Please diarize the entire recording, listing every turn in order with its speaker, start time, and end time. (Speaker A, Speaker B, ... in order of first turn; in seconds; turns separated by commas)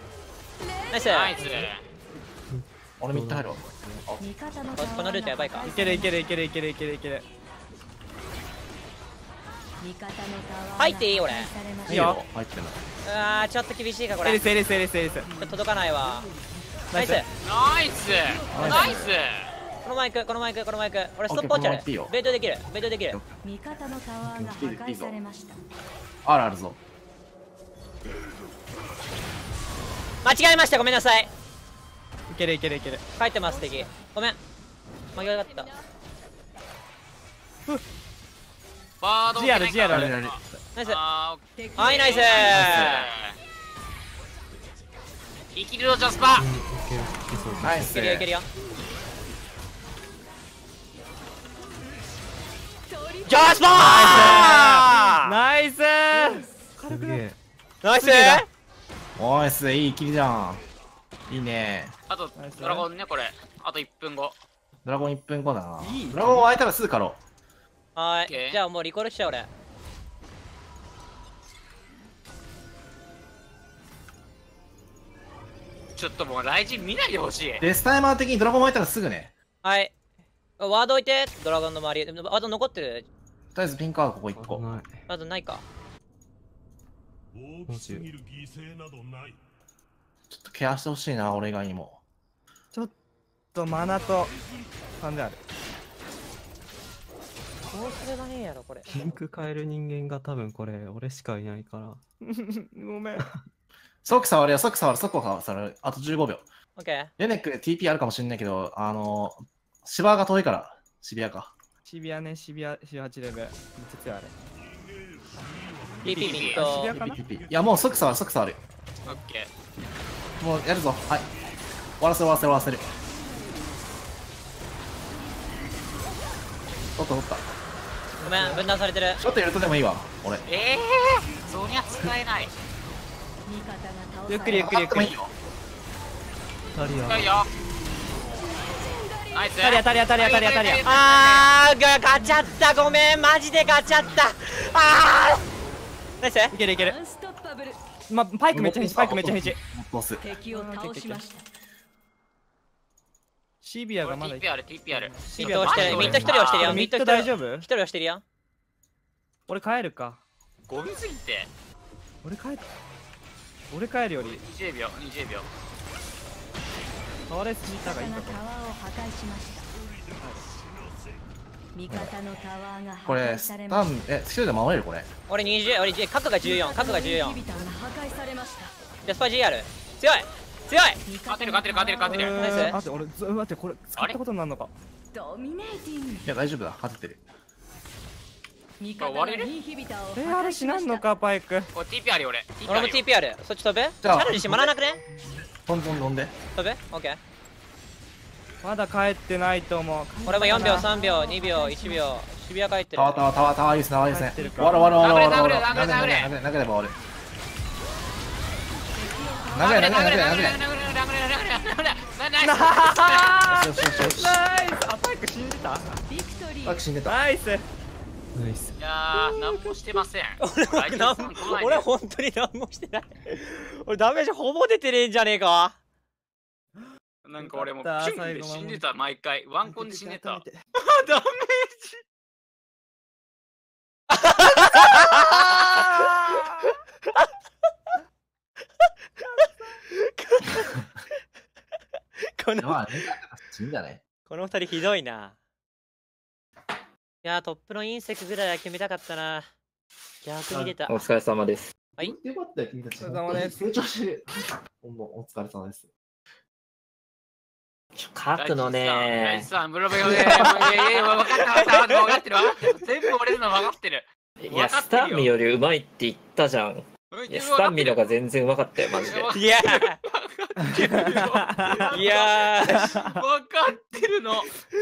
Speaker A: 0.6-1.6, Speaker B: 0.9-1.4, Speaker C: 1.1-1.8, Speaker D: 1.4-1.7, Speaker E: 2.5-4.1, Speaker F: 3.0-4.2, Speaker A: 4.2-6.3, Speaker B: 4.7-5.7, Speaker D: 5.7-7.2, Speaker A: 9.8-12.2, Speaker B: 10.8-11.5, Speaker F: 11.8-12.8, Speaker D: 11.9-12.2, Speaker B: 13.0-14.5, Speaker D: 14.2-15.3, Speaker B: 15.4-16.3, Speaker D: 16.9-17.2, Speaker B: 16.9-17.3, Speaker C: 17.4-19.5, Speaker A: 18.0-19.1, Speaker F: 18.5-19.2, Speaker B: 19.8-23.2, Speaker F: 21.3-22.1, Speaker F: 23.1-23.4, Speaker A: 23.4-25.6, Speaker F: 24.4-25.2, Speaker F: 26.2-26.8, Speaker B: 30.2-31.3, Speaker D: 32.3-33.0, Speaker B: 33.2-34.4, Speaker A: 33.5-33.9, Speaker B: 35.1-35.7, Speaker C: 39.0-43.4, Speaker D: 39.3-40.1, Speaker F: 39.9-40.6, Speaker A: 41.6-42.6, Speaker B: 41.8-43.1, Speaker F: 42.5-43.0, Speaker C: 45.5-46.5, Speaker E: 46.4-47.8, Speaker A: 46.4-47.8, Speaker F: 47.6-48.3, Speaker B: 47.8-48.5, Speaker A: 52.9-55.1, Speaker B: 53.3-55.3, Speaker D: 53.7-57.2, Speaker A: 56.1-56.7, Speaker E: 56.9-57.4, Speaker B: 57.8-58.5, Speaker D: 57.9-58.5, Speaker F: 59.2-60.6, Speaker F: 61.3-61.9, Speaker C: 62.1-64.4, Speaker D: 62.4-62.9, Speaker F: 64.8-67.2, Speaker D: 65.8-66.5, Speaker B: 68.0-69.5, Speaker C: 68.3-68.6, Speaker C: 76.0-77.6, Speaker F: 77.6-79.3, Speaker B: 79.6-79.9, Speaker B: 80.6-83.1, Speaker F: 83.5-84.7, Speaker E: 84.3-85.0, Speaker B: 85.1-85.6, Speaker G: 87.3-89.4, Speaker E: 87.7-88.1, Speaker F: 90.3-92.0, Speaker D: 93.5-94.3, Speaker D: 95.0-95.4, Speaker B: 97.7-99.2, Speaker E: 98.8-102.0, Speaker D: 102.2-103.2, Speaker F: 104.0-106.5, Speaker B: 106.8-107.1, Speaker F: 107.2-111.5, Speaker D: 111.8-114.3, Speaker G: 114.5-118.4, Speaker B: 116.0-116.9, Speaker C: 116.1-116.8, Speaker D: 116.1-117.2, Speaker F: 116.9-118.6, Speaker C: 119.0-119.5, Speaker F: 120.4-121.3, Speaker F: 122.0-122.9, Speaker F: 127.0-127.5, Speaker D: 128.2-128.7, Speaker B: 128.2-129.2, Speaker F: 129.2-130.4, Speaker C: 130.5-132.5, Speaker G: 131.3-132.2, Speaker A: 133.4-134.9, Speaker D: 134.3-135.1, Speaker F: 134.5-135.3, Speaker E: 136.7-137.4, Speaker C: 137.0-137.5, Speaker A: 138.4-139.6, Speaker C: 139.3-141.6, Speaker D: 139.6-140.8, Speaker B: 140.8-145.4, Speaker A: 142.1-143.2, Speaker B: 146.2-146.5, Speaker D: 146.5-147.0, Speaker A: 146.7-147.8, Speaker D: 148.1-149.6, Speaker F: 148.5-150.2, Speaker A: 150.2-151.4, Speaker D: 150.4-151.2, Speaker D: 153.6-157.7, Speaker C: 154.0-156.8, Speaker B: 155.4-158.2, Speaker E: 155.7-156.3, Speaker D: 159.5-160.2, Speaker C: 160.7-161.5, Speaker D: 162.2-162.7, Speaker D: 163.7-164.4, Speaker C: 164.2-165.5, Speaker D: 167.3-168.4, Speaker A: 167.6-169.7, Speaker G: 169.7-171.2, Speaker D: 170.2-170.4, Speaker A: 171.7-173.9, Speaker F: 173.0-175.1, Speaker B: 175.3-177.4, Speaker A: 176.4-178.7, Speaker B: 179.0-181.0, Speaker A: 181.0-182.5, Speaker C: 181.3-182.5, Speaker D: 182.0-184.7, Speaker B: 182.4-182.8, Speaker A: 185.1-186.3, Speaker F: 186.2-187.2, Speaker A: 188.8-191.1, Speaker C: 189.0-189.5, Speaker D: 190.1-191.7, Speaker C: 191.7-193.0, Speaker B: 192.7-195.0, Speaker F: 194.0-194.7, Speaker F: 195.6-196.3, Speaker B: 196.6-197.2, Speaker D: 198.6-200.9, Speaker B: 200.3-203.2, Speaker A: 200.3-202.2, Speaker F: 202.9-206.9, Speaker D: 204.0-205.4, Speaker C: 205.0-206.3, Speaker A: 208.9-210.4, Speaker F: 209.5-210.6, Speaker C: 209.6-213.6, Speaker D: 212.4-216.0, Speaker F: 213.5-214.4, Speaker A: 216.1-216.9, Speaker F: 216.6-217.2, Speaker D: 217.0-217.7, Speaker E: 218.3-218.8, Speaker C: 218.8-221.9, Speaker D: 219.2-220.0, Speaker B: 220.4-225.8, Speaker C: 227.2-232.0, Speaker D: 227.4-228.8, Speaker D: 229.6-230.6, Speaker B: 234.1-235.8, Speaker D: 234.9-236.7, Speaker D: 239.2-239.8, Speaker B: 239.9-240.8, Speaker B: 242.2-243.1, Speaker F: 242.6-244.0, Speaker B: 244.3-245.3, Speaker B: 247.2-249.5, Speaker B: 250.2-251.0, Speaker H: 250.8-251.7, Speaker F: 252.0-255.9, Speaker D: 253.0-253.6, Speaker H: 257.9-259.5, Speaker C: 258.4-265.3, Speaker B: 260.0-262.2, Speaker H: 264.4-269.3, Speaker C: 267.1-268.1, Speaker C: 268.9-274.6, Speaker B: 269.3-270.0, Speaker D: 270.8-271.9, Speaker B: 271.9-272.9, Speaker D: 272.7-273.1